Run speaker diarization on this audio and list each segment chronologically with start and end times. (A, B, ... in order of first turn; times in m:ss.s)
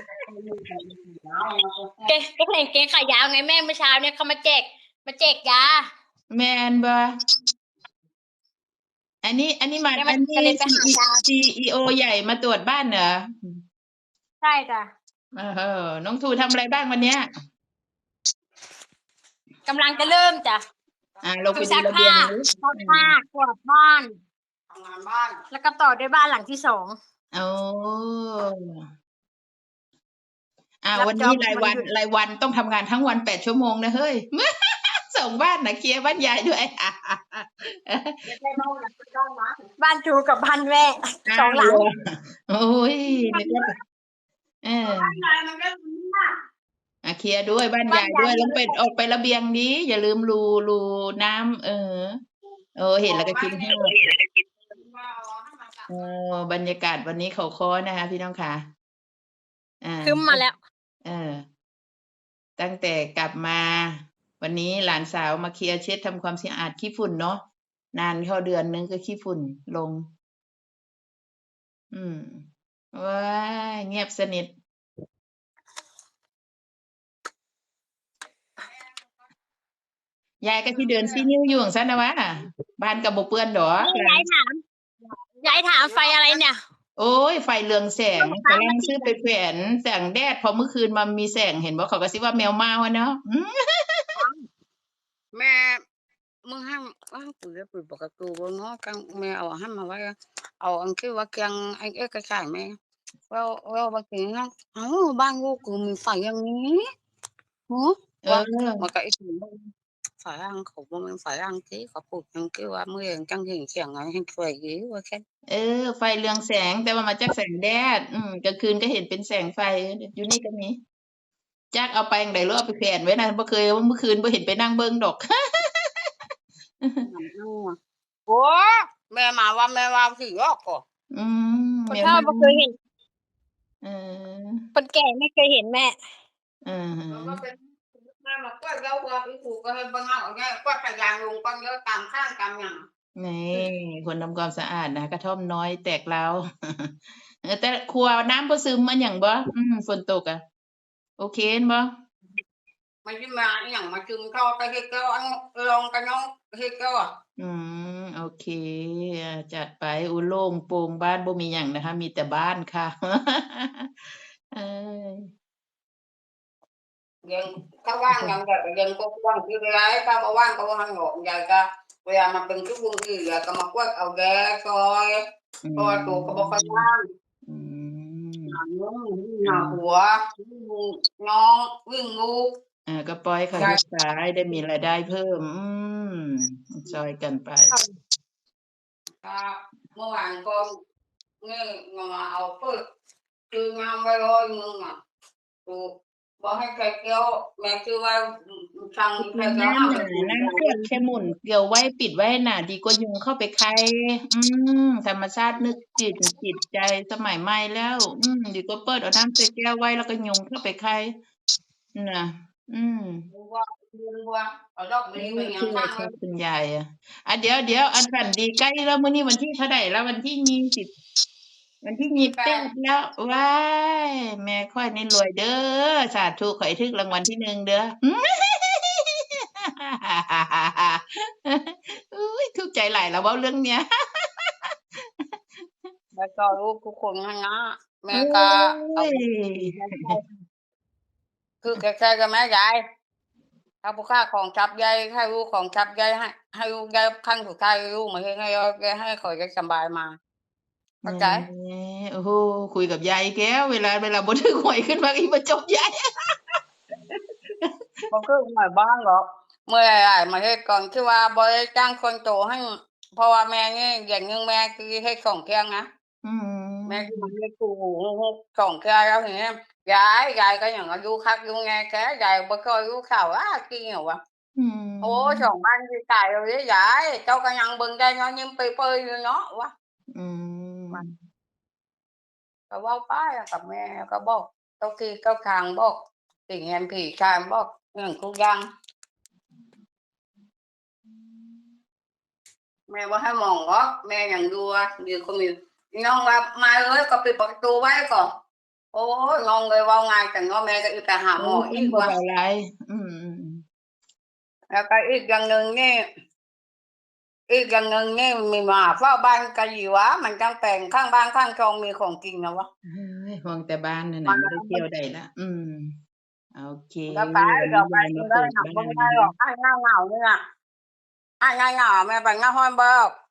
0:00.3-0:02.0 A
0:02.1-0:05.8 B
0:06.3-0:07.0 C
0:09.2-0:13.6 C
0:10.0-0:11.2 B
0:14.4-0:14.9 B
0:15.4-0:17.3 C
0:19.7-0:20.6 B
0:21.2-0:23.1 C
0:21.5-0:24.1 B
0:24.7-0:25.4 A
0:25.5-0:27.0 B
0:27.3-0:28.8 C
0:30.8-0:34.4 C
0:31.0-0:31.8 B
0:35.1-0:38.1 C
0:38.2-0:39.6 A
0:39.8-0:41.8 B
0:41.3-0:41.9 C
0:42.5-0:43.7 C
0:43.3-0:43.6 B
0:44.6-0:45.2 C
0:44.8-0:46.4 A
0:47.0-0:52.2 C
0:47.9-0:48.7 B
0:52.8-0:53.9 C
0:53.0-0:53.8 A
0:54.7-0:56.0 A
0:55.9-0:58.6 C
0:59.8-1:00.4 C
1:00.0-1:00.6 B
1:01.0-1:01.4 C
1:02.6-1:07.4 C
1:07.9-1:10.0 C
1:11.9-1:14.5 C
1:20.4-1:24.2 C
1:20.7-1:21.3 A
1:23.8-1:24.6 B
1:25.4-1:26.4 A
1:25.4-1:26.6 B
1:27.0-1:34.1 C
1:28.2-1:29.1 B
1:34.2-1:34.5 A
1:35.3-1:35.8 A
1:36.4-1:42.7 A
1:43.3-1:46.8 A
1:47.7-1:49.5 A
1:48.2-1:48.9 C
1:50.2-1:55.2 A
1:55.5-2:00.8 C
2:01.7-2:05.2 C
2:07.0-2:07.8 A
2:08.3-2:10.8 A
2:11.1-2:12.6 C
2:11.9-2:12.8 B
2:13.8-2:14.7 C
2:14.8-2:16.0 B
2:16.6-2:17.4 C
2:17.1-2:22.8 A
2:23.2-2:26.9 C
2:27.4-2:30.4 C
2:31.2-2:31.9 C
2:33.0-2:37.1 A
2:37.4-2:43.9 C
2:44.5-2:45.3 C
2:47.2-2:55.2 A
2:48.1-2:48.3 C
2:55.6-2:56.9 C
2:55.8-2:57.0 A
2:57.5-2:58.6 C
2:58.5-3:02.5 A
2:59.4-2:59.8 C
3:02.9-3:07.8 C
3:09.2-3:10.7 A
3:11.4-3:12.8 A
3:13.5-3:15.0 A
3:15.6-3:20.8 A
3:19.2-3:31.1 C
3:31.9-3:33.2 C
3:33.3-3:36.1 A
3:35.2-3:40.9 C
3:41.8-3:49.2 C
3:42.2-3:42.7 A
3:49.8-3:53.8 C
3:56.2-4:00.2 A
3:58.1-4:00.2 C
4:01.6-4:02.8 A
4:03.8-4:10.2 A
4:11.0-4:11.4 A
4:11.0-4:15.9 C
4:17.1-4:17.7 C
4:18.1-4:25.8 A
4:26.2-4:27.3 C
4:26.8-4:34.2 A
4:34.6-4:35.5 C
4:35.0-4:39.7 A
4:40.1-4:41.1 C
4:42.7-4:45.9 A
4:46.5-4:48.6 A
4:52.9-4:58.2 A
4:58.9-5:02.1 A
5:01.4-5:03.6 C
5:04.7-5:06.0 A
5:07.5-5:12.7 A
5:12.9-5:15.9 C
5:14.2-5:14.8 A
5:16.6-5:19.3 C
5:17.1-5:20.4 A
5:21.4-5:23.1 A